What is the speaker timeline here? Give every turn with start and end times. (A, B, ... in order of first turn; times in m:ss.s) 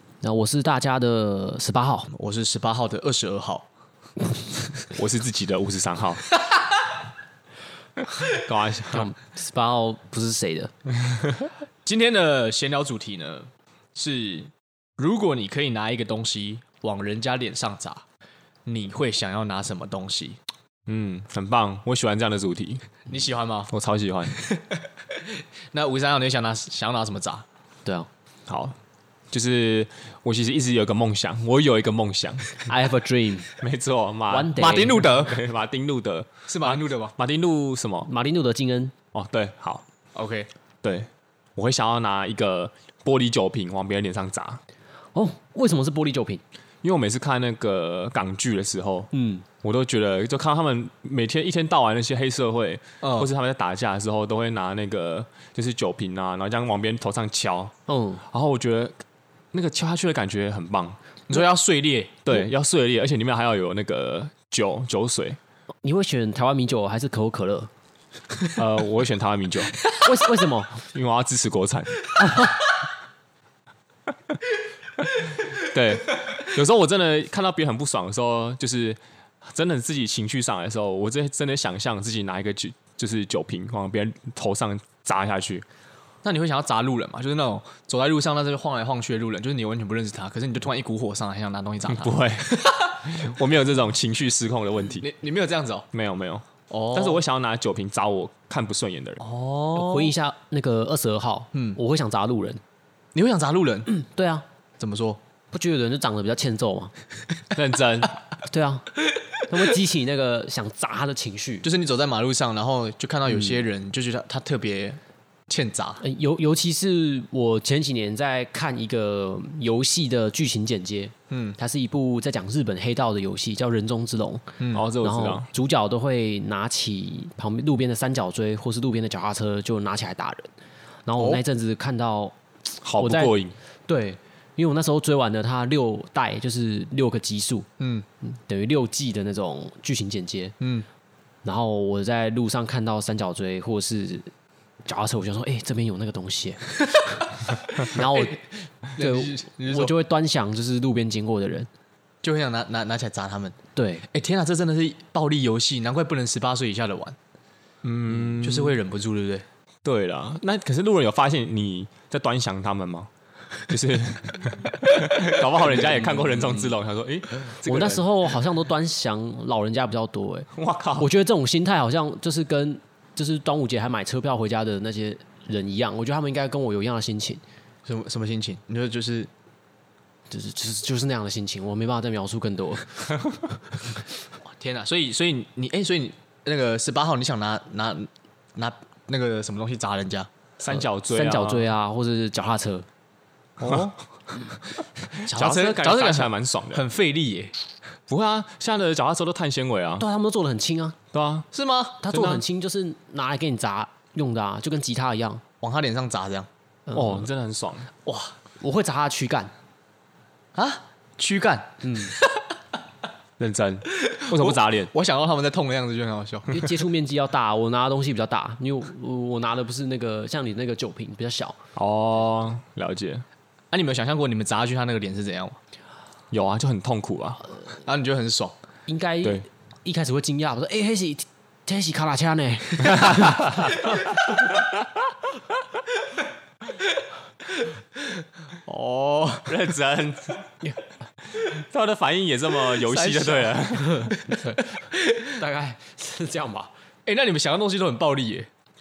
0:00.2-0:02.1 A
0:02.1-0:03.7 B
0:04.9-0:06.2 C
0:08.3-0:09.1 C
0:08.9-0:10.7 A
0:11.8-0:18.0 B
0:18.6-0:20.4 B
0:20.9-0:22.9 C
0:23.1-0:23.7 B
0:23.7-0:24.3 C
0:25.7-0:27.4 B
0:28.5-0:28.8 C
0:29.3-0:32.7 C
0:32.6-0:33.5 A
0:33.6-0:38.1 C
0:34.3-0:35.1 A
0:34.6-0:35.4 B
0:36.5-0:37.2 B
0:38.0-0:38.9 A
0:39.1-0:39.8 C
0:40.1-0:40.5 B
0:40.8-0:44.6 C
0:45.1-0:46.4 A
0:46.8-0:49.1 C
0:49.1-0:49.4 A
0:49.6-0:57.7 C
0:53.0-0:53.3 B
0:57.9-0:58.2 A
0:58.3-0:58.9 C
0:59.5-1:01.0 C
1:01.3-1:02.4 B
1:02.2-1:05.4 C
1:05.8-1:07.7 A
1:08.5-1:09.7 C
1:10.0-1:10.8 A
1:10.8-1:12.1 C
1:12.2-1:12.6 A
1:15.5-1:25.6 C
1:26.2-1:32.8 B
1:31.9-1:35.0 C
1:35.0-1:35.9 B
1:35.9-1:39.2 C
1:36.7-1:37.2 B
1:39.2-1:40.1 B
1:39.7-1:42.6 A
1:43.1-1:43.9 B
1:43.9-1:44.4 A
1:44.8-1:45.2 B
1:45.5-1:46.9 A
1:47.5-1:48.1 C
1:48.5-1:51.7 A
1:51.6-1:56.0 B
1:53.3-1:53.6 A
1:56.0-2:10.5 A
2:01.3-2:01.6 B
2:04.7-2:05.5 C
2:11.0-2:12.3 A
2:12.8-2:13.5 C
2:13.0-2:17.7 A
2:17.8-2:18.0 B
2:18.2-2:20.5 A
2:20.6-2:20.8 B
2:21.4-2:24.3 A
2:24.8-2:31.7 A
2:28.9-2:29.9 B
2:32.2-2:33.5 B
2:33.8-2:34.0 A
2:34.1-2:37.2 B
2:37.8-2:38.8 C
2:38.2-2:39.4 B
2:39.8-2:43.1 C
2:43.7-2:48.0 C
2:45.8-2:46.7 A
2:47.6-2:50.5 A
2:50.5-2:51.1 C
2:51.0-2:57.4 A
2:57.8-2:59.3 B
3:00.3-3:03.4 A
3:04.4-3:10.3 B
3:10.6-3:11.7 C
3:10.7-3:12.8 A
3:13.6-3:13.9 C
3:13.6-3:13.9 B
3:15.1-3:16.8 C
3:15.3-3:15.7 A
3:15.3-3:17.5 B
3:18.1-3:20.0 C
3:20.0-3:21.0 A
3:21.1-3:21.5 C
3:21.5-3:22.0 B
3:22.0-3:25.4 A
3:22.0-3:22.4 C
3:25.6-3:26.5 B
3:26.9-3:27.2 A
3:26.9-3:27.9 C
3:28.0-3:28.3 B
3:28.6-3:29.5 A
3:30.5-3:32.1 B
3:31.8-3:32.2 A
3:33.4-3:34.9 C
3:34.2-3:36.6 B
3:36.5-3:41.6 A
3:41.7-3:43.2 C
3:43.7-3:45.6 B
3:46.3-3:47.4 C
3:47.8-3:48.5 B
3:48.9-3:54.0 A
3:58.6-3:59.5 B
3:59.4-4:00.5 C
4:01.2-4:04.1 C
4:02.8-4:04.6 B
4:05.1-4:06.7 A
4:07.0-4:08.5 B